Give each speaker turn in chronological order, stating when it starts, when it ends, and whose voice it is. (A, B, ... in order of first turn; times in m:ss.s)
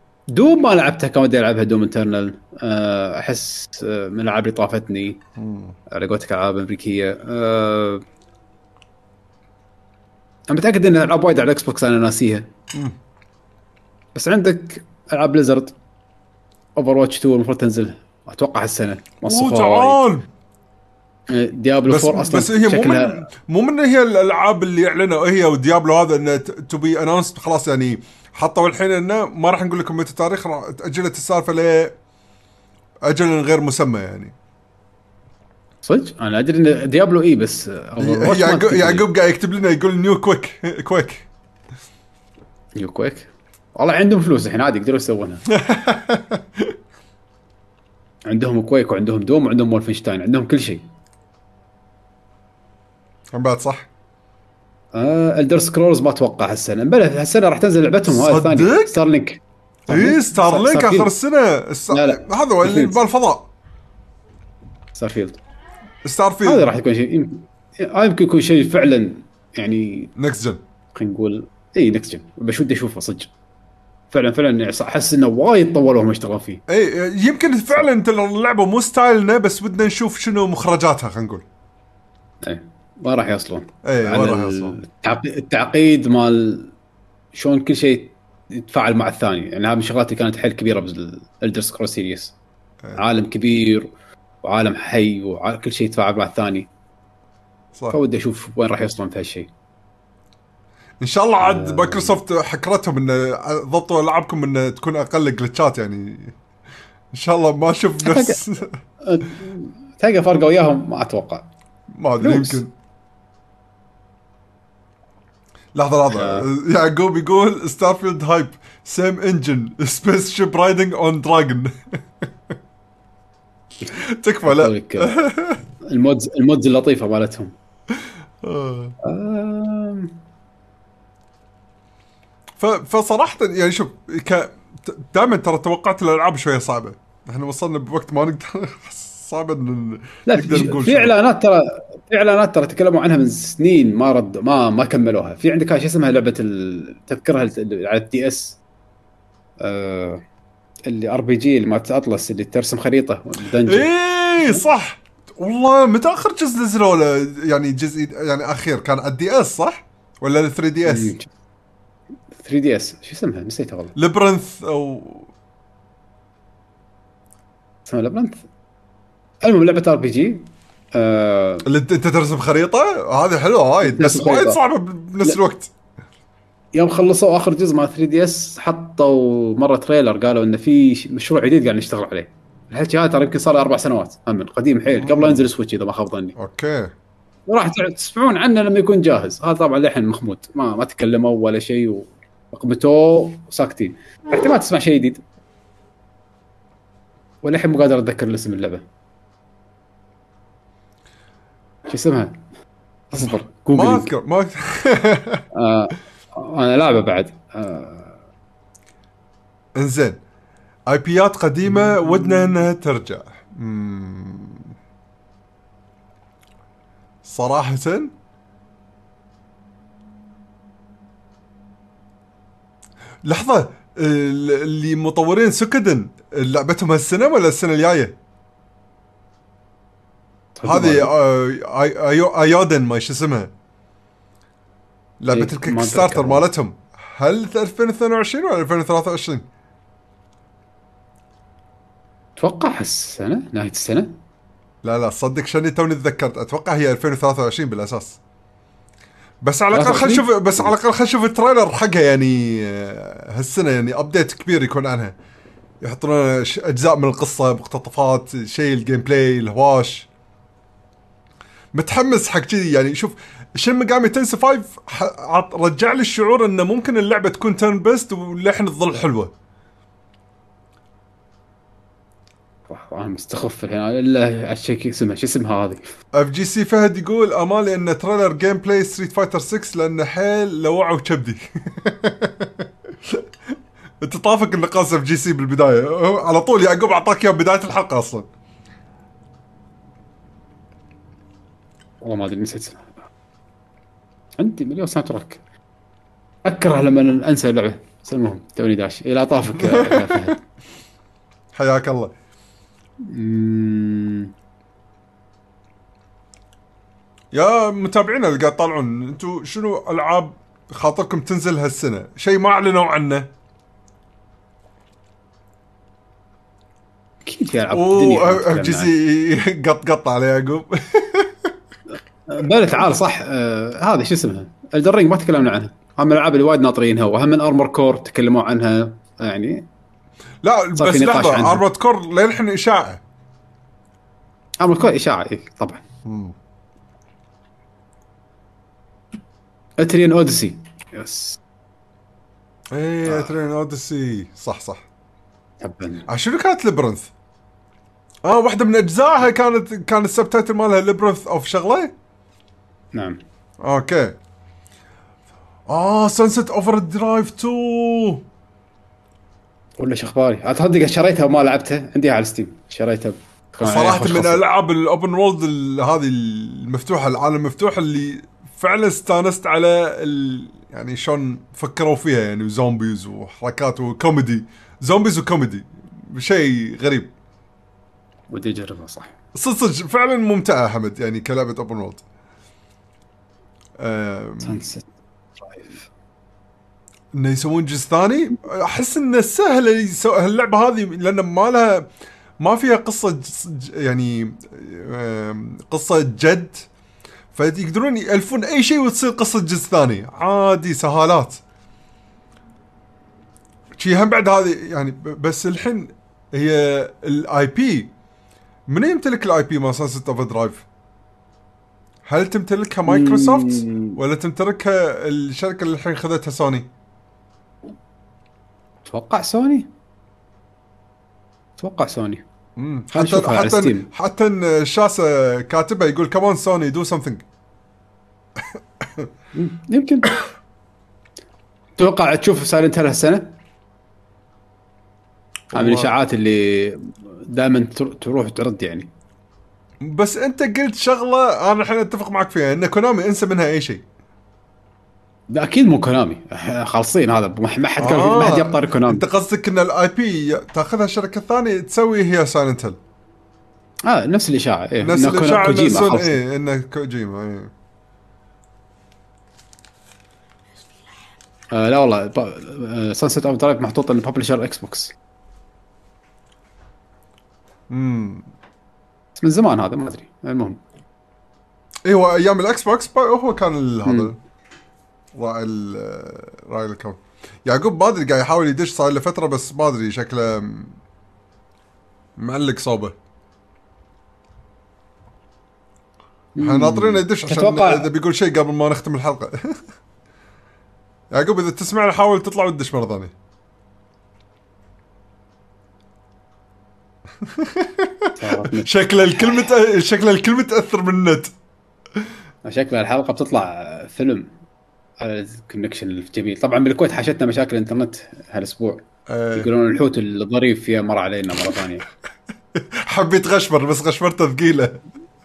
0:00.3-0:05.2 A
0:05.4-0:05.7 B
0:05.9-0:08.0 A
0:10.5-0:12.5 A
0:14.1-0:15.8 A
0:16.8-0:20.0 A
0:19.2-0:20.3 B
0:21.3-0:23.2 A
0:21.9-0:32.0 B
0:33.0-0:34.3 B
0:35.8-0:39.1 A
0:38.0-0:41.2 B
0:42.8-0:45.4 A
0:45.5-0:46.7 B
0:48.2-0:50.8 A
0:53.3-0:53.9 B
0:54.9-1:01.1 A
0:58.1-0:59.0 B
0:59.9-1:03.5 B
1:01.9-1:03.0 A
1:04.9-1:05.4 A
1:06.0-1:06.7 B
1:06.4-1:10.1 A
1:10.2-1:10.6 B
1:10.9-1:13.3 A
1:14.1-1:16.6 A
1:16.7-1:21.4 B
1:22.4-1:26.7 A
1:23.8-1:24.8 B
1:27.3-1:32.3 A
1:33.0-1:33.9 A
1:34.4-1:36.7 A
1:37.9-1:39.5 A
1:41.0-1:46.3 B
1:41.4-1:42.2 A
1:47.1-1:48.7 B
1:48.0-1:48.4 A
1:49.0-1:51.5 A
1:51.9-1:52.7 B
1:52.2-1:52.6 A
1:55.7-2:02.5 B
1:56.1-1:56.5 A
2:03.9-2:05.6 B
2:04.4-2:05.2 A
2:05.8-2:07.5 A
2:08.4-2:09.0 B
2:09.0-2:10.1 A
2:12.6-2:21.1 B
2:20.2-2:28.6 A
2:29.6-2:30.2 A
2:30.9-2:33.9 A
2:33.7-2:41.1 B
2:40.8-2:41.3 A
2:42.4-2:43.9 A
2:44.0-2:45.3 B
2:47.8-2:48.4 A
2:49.4-2:51.7 A
2:51.6-2:55.7 B
2:53.8-2:54.6 A
2:56.7-3:06.3 A
3:05.0-3:05.4 B
3:06.4-3:06.9 B
3:07.5-3:15.2 A
3:17.4-3:18.8 A
3:21.9-3:22.4 A
3:23.1-3:24.1 A
3:23.7-3:25.4 B
3:25.5-3:28.2 A
3:29.8-3:30.2 B
3:30.9-3:34.7 B
3:31.8-3:32.5 A
3:37.2-3:38.1 B
3:43.2-3:48.2 B
3:50.6-3:51.1 A
3:50.6-3:53.5 B
3:55.2-3:59.4 B
3:55.3-3:56.4 A
4:02.4-4:04.1 A
4:04.8-4:08.2 B
4:09.4-4:15.1 B
4:09.7-4:10.7 A
4:15.8-4:20.1 B
4:21.7-4:29.3 B
4:32.7-4:35.9 A
4:36.1-4:43.2 B
4:44.0-4:48.3 B
4:52.0-4:52.9 A
4:54.4-4:55.4 A
4:56.4-5:00.4 A
4:59.6-5:00.3 B
5:01.5-5:02.1 B
5:03.0-5:04.3 A
5:07.3-5:13.3 B
5:17.2-5:18.9 A
5:17.7-5:21.5 B
5:22.3-5:29.6 A
5:30.4-5:33.0 B
5:30.8-5:31.6 A
5:34.6-5:35.8 A
5:36.0-5:36.3 B
5:39.8-5:41.4 A
5:42.7-5:44.8 B
5:45.6-5:46.0 A
5:46.1-5:47.1 B
5:48.2-5:51.9 B
5:52.9-5:53.2 A
5:53.6-5:54.1 B
5:55.7-5:58.2 B
5:59.8-6:04.4 A
6:03.6-6:17.1 B
6:18.3-6:19.1 A
6:19.3-6:22.0 B
6:23.8-6:24.6 B
6:24.4-6:24.9 A
6:25.4-6:25.8 A
6:27.2-6:31.9 B
6:32.4-6:36.6 B
6:37.3-6:41.4 B
6:43.8-6:47.9 B
6:48.7-6:50.6 B
6:52.0-6:56.7 B
6:52.9-6:54.0 A
6:58.9-6:59.7 A
7:01.6-7:02.2 A
7:02.6-7:07.2 B
7:02.9-7:03.9 A
7:08.8-7:09.1 B
7:09.3-7:10.2 A
7:11.8-7:13.4 A
7:15.5-7:15.9 B
7:15.5-7:18.9 A
7:19.8-7:23.8 B
7:25.3-7:29.0 A
7:27.8-7:32.8 B
7:33.8-7:36.2 A
7:34.8-7:37.5 B
7:41.5-7:44.9 A
7:47.7-7:48.3 B
7:49.2-7:50.6 A
7:51.8-7:54.2 B
7:53.8-7:54.1 A
7:55.1-8:00.8 B
8:02.2-8:02.9 B
8:06.4-8:07.9 A
8:06.4-8:09.6 B
8:11.1-8:13.1 B
8:17.2-8:21.3 B
8:18.2-8:19.5 A
8:22.4-8:24.3 A
8:25.0-8:28.8 A
8:29.1-8:29.5 B
8:29.3-8:31.8 A
8:32.5-8:34.8 B